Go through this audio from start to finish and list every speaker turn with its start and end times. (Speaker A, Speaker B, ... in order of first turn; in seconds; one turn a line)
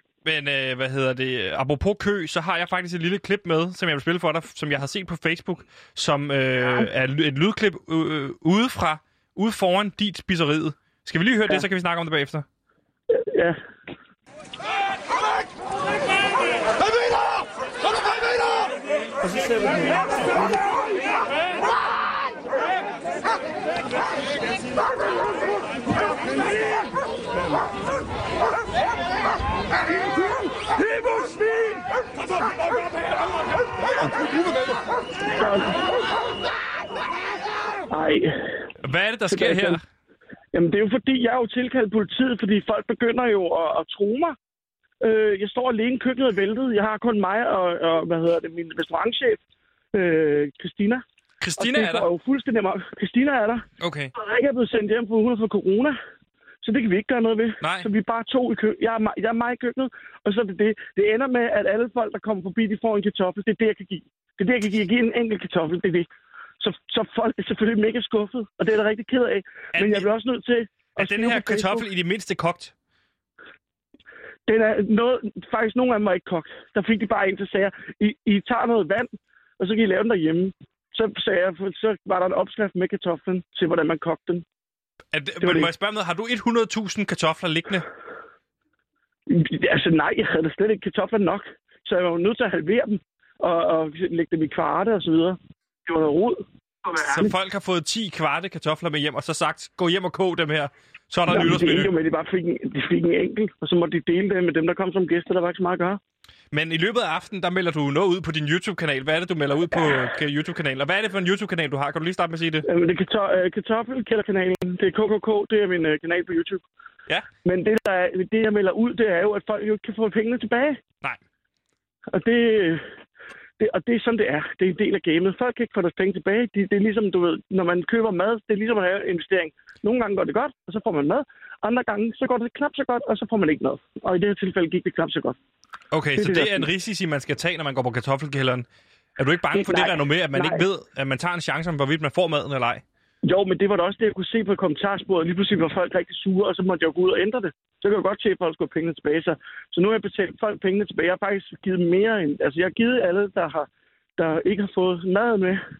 Speaker A: 0.2-12.4
Speaker B: 13.1-13.6
Speaker B: 19.2-20.3
Speaker B: 35.3-35.9
Speaker B: 37.9-38.6
Speaker A: 38.8-39.8
Speaker B: 39.3-39.8
Speaker B: 40.5-44.4
Speaker B: 45.0-49.4
Speaker B: 49.9-51.0
Speaker A: 51.4-52.1
Speaker B: 51.6-56.0
Speaker A: 53.8-54.1
Speaker B: 56.6-66.1
Speaker A: 57.6-57.9
Speaker B: 66.6-71.8
Speaker A: 69.7-70.1
Speaker A: 71.0-72.7
Speaker B: 74.5-84.4
Speaker A: 85.1-87.8
Speaker B: 85.4-85.7
Speaker B: 89.3-97.3
Speaker A: 97.0-101.9
Speaker B: 101.3-106.0
Speaker A: 106.5-112.7
Speaker B: 112.7-116.6
Speaker B: 117.4-120.8
Speaker B: 122.1-122.8
Speaker B: 123.6-135.4
Speaker A: 135.9-138.7
Speaker B: 136.2-136.7
Speaker A: 139.2-142.8
Speaker B: 139.5-140.6
Speaker B: 143.2-155.6